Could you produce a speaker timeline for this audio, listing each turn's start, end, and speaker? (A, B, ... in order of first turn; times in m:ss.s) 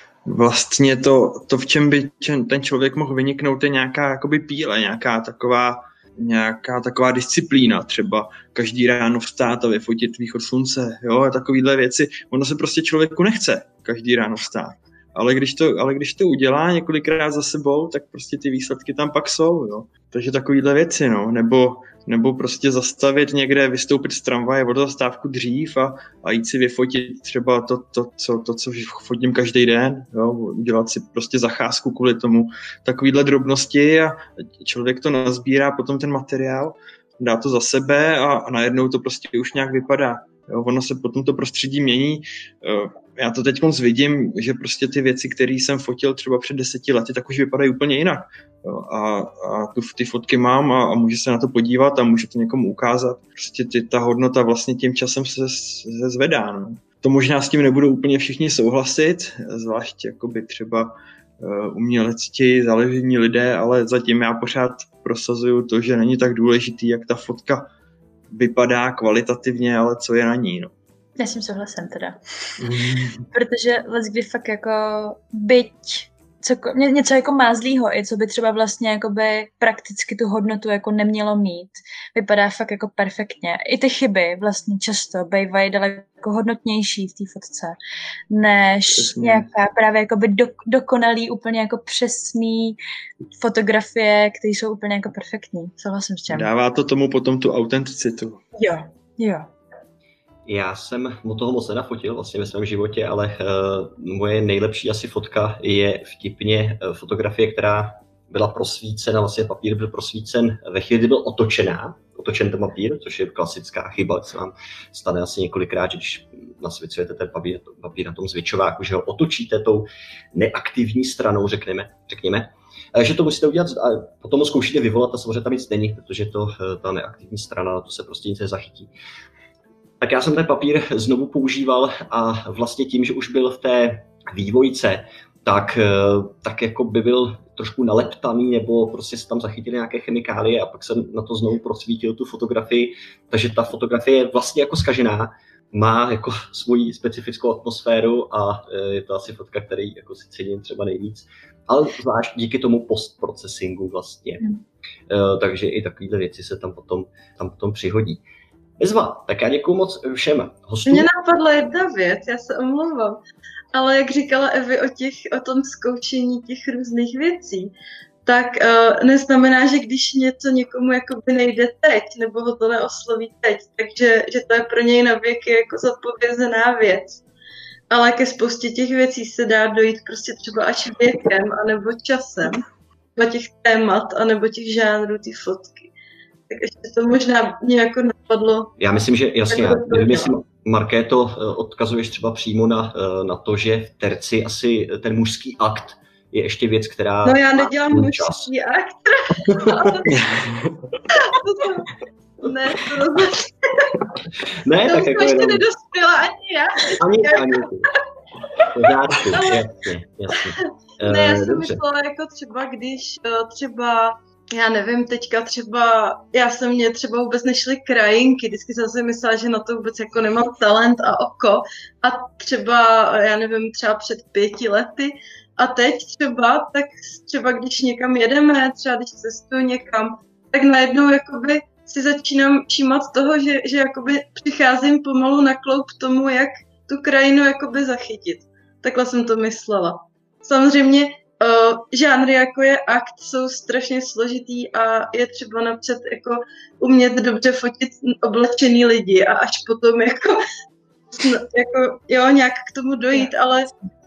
0:00.2-1:07.7 A
1:08.3-1:10.7 A
1:11.2-1:12.2 B
1:12.6-1:13.2 A
1:13.3-1:27.8 B
1:28.3-1:32.8 B
1:28.9-1:29.5 A
1:33.4-1:36.5 B
1:36.3-1:38.4 A
1:38.6-1:39.5 B
1:40.5-2:08.9 C
2:10.0-2:34.4 C
2:35.1-2:38.2 C
2:38.8-2:41.1 C
2:40.9-2:43.2 D
2:43.7-2:47.7 D
2:48.2-2:57.2 D
2:57.9-3:05.9 D
3:06.5-3:08.7 D
3:08.8-3:18.5 C
3:09.5-3:10.3 D
3:17.2-3:20.1 D
3:19.5-3:20.0 C
3:20.1-3:20.9 A
3:21.1-3:23.9 D
3:24.5-3:25.6 C
3:24.8-3:27.7 D
3:27.0-3:27.9 C
3:28.7-3:31.8 C
3:29.4-3:29.6 D
3:30.6-4:10.4 D
4:11.1-4:13.7 D